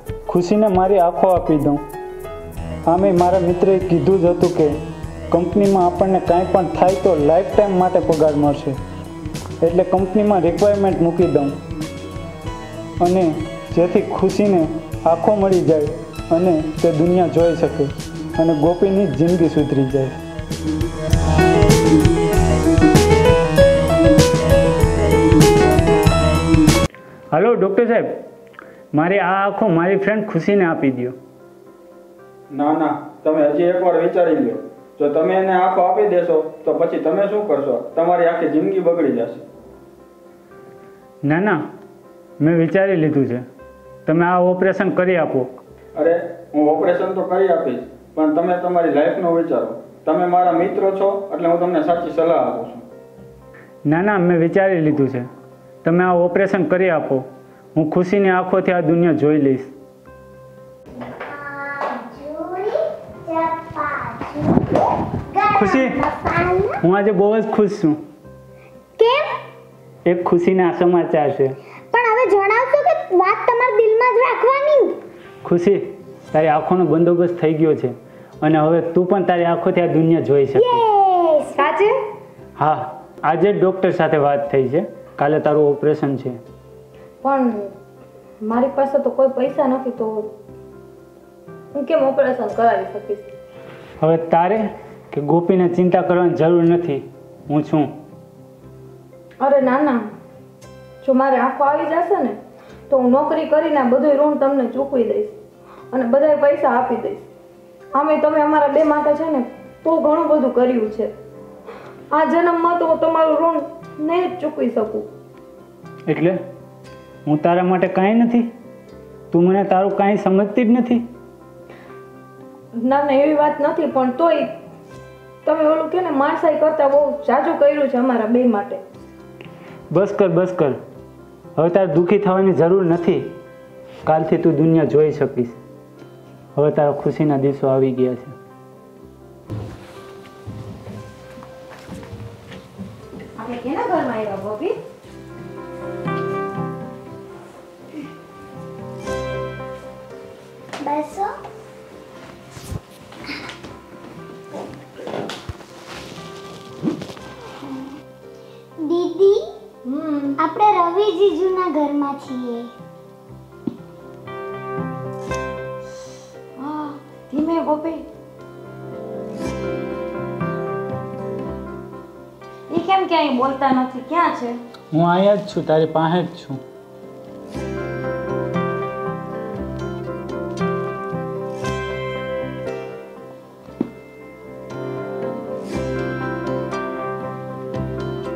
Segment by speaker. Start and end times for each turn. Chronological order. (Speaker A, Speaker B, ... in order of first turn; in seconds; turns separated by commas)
Speaker A: 0.3-1.8, Speaker A: 2.9-4.8, Speaker A: 5.3-8.8, Speaker A: 9.6-11.6, Speaker A: 13.0-20.2, Speaker A: 27.3-28.2, Speaker A: 28.9-31.2, Speaker B: 32.5-39.5, Speaker A: 41.2-41.6, Speaker A: 42.4-43.5, Speaker A: 44.1-45.5, Speaker B: 46.0-52.8, Speaker A: 53.9-55.3, Speaker A: 55.8-59.7, Speaker C: 61.0-66.8, Speaker A: 65.6-66.0, Speaker A: 66.8-68.0, Speaker C: 69.0-69.3, Speaker A: 70.1-71.6, Speaker C: 71.9-75.0, Speaker A: 75.4-80.8, Speaker C: 80.5-81.6, Speaker D: 81.5-81.9, Speaker A: 82.6-86.4, Speaker D: 87.2-87.7, Speaker D: 88.4-90.3, Speaker D: 91.7-93.3, Speaker A: 94.0-97.9, Speaker D: 99.4-100.0, Speaker D: 101.0-102.4, Speaker D: 102.9-105.4, Speaker D: 105.9-107.2, Speaker D: 108.0-111.1, Speaker D: 112.1-115.1, Speaker A: 116.1-116.4, Speaker A: 117.3-118.5, Speaker A: 119.3-121.0, Speaker D: 122.8-124.5, Speaker D: 125.5-128.8, Speaker A: 129.9-130.8, Speaker A: 131.6-133.3, Speaker A: 134.1-135.6, Speaker A: 136.6-138.3, Speaker D: 143.4-144.8, Speaker C: 150.8-151.3, Speaker C: 158.8-159.5, Speaker D: 159.9-160.4, Speaker C: 160.4-162.7, Speaker D: 166.6-168.1, Speaker D: 172.7-174.6, Speaker A: 174.9-176.6